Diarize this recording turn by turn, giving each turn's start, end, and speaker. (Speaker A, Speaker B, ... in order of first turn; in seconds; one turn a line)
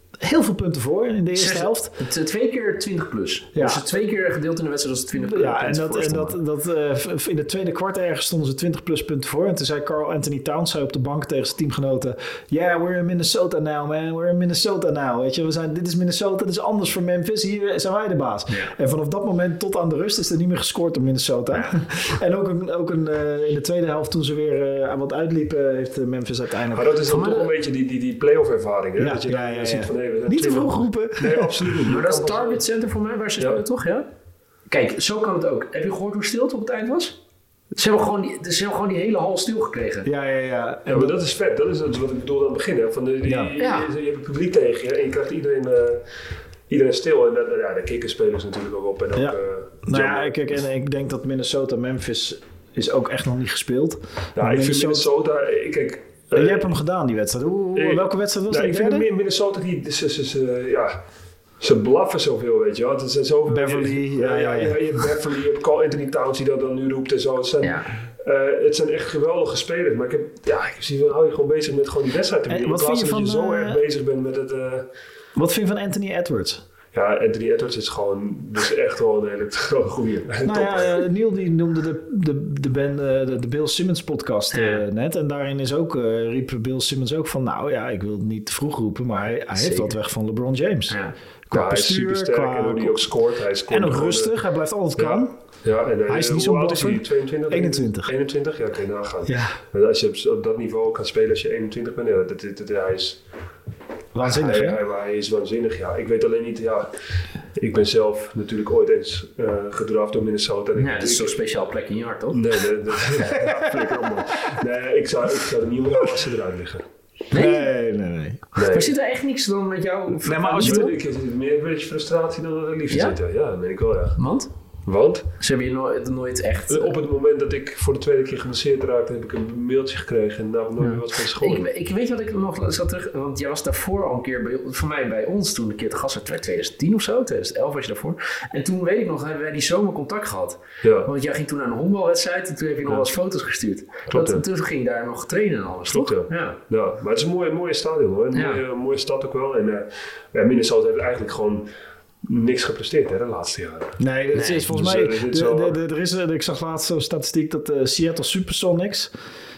Speaker A: 0.2-1.9
Speaker B: 1.3-6.3
Speaker A: 3.5-3.8
Speaker A: 5.1-27.0
Speaker C: 26.7-32.6
Speaker B: 27.1-27.5
Speaker A: 29.0-31.8
Speaker B: 31.9-34.0
Speaker B: 34.7-37.2
Speaker B: 37.7-40.1
Speaker A: 40.0-41.1
Speaker C: 40.9-46.0
Speaker A: 43.2-43.5
Speaker B: 43.6-43.9
Speaker C: 46.7-50.3
Speaker A: 49.1-55.1
Speaker C: 54.4-56.7
Speaker A: 56.3-59.1
Speaker C: 57.7-61.0
Speaker C: 61.6-74.9
Speaker A: 63.5-64.8
Speaker B: 67.6-67.9
Speaker A: 72.5-73.8
Speaker A: 75.3-76.6
Speaker C: 76.9-81.0
Speaker A: 80.4-91.0
Speaker B: 84.5-84.8
Speaker B: 89.5-89.9
Speaker B: 90.9-91.1
Speaker A: 91.5-93.1
Speaker C: 91.5-94.3
Speaker A: 93.7-95.3
Speaker C: 95.0-103.2
Speaker A: 96.1-98.1
Speaker A: 99.2-99.6
Speaker A: 104.1-104.8
Speaker C: 104.2-106.9
Speaker C: 107.5-111.4
Speaker B: 110.8-112.4
Speaker C: 112.3-116.8
Speaker A: 113.3-114.1
Speaker B: 117.3-117.7
Speaker A: 117.3-118.4
Speaker C: 118.5-118.9
Speaker B: 118.6-120.9
Speaker A: 120.2-120.9
Speaker C: 120.6-124.2
Speaker B: 122.9-123.2
Speaker B: 124.2-124.5
Speaker C: 124.8-125.2
Speaker B: 125.4-126.9
Speaker C: 126.7-131.6
Speaker B: 130.8-146.6
Speaker C: 140.8-141.1
Speaker C: 144.1-144.4
Speaker C: 145.9-151.6
Speaker B: 148.3-148.6
Speaker C: 152.2-154.0
Speaker A: 154.0-159.1
Speaker B: 154.3-154.7
Speaker C: 154.7-155.8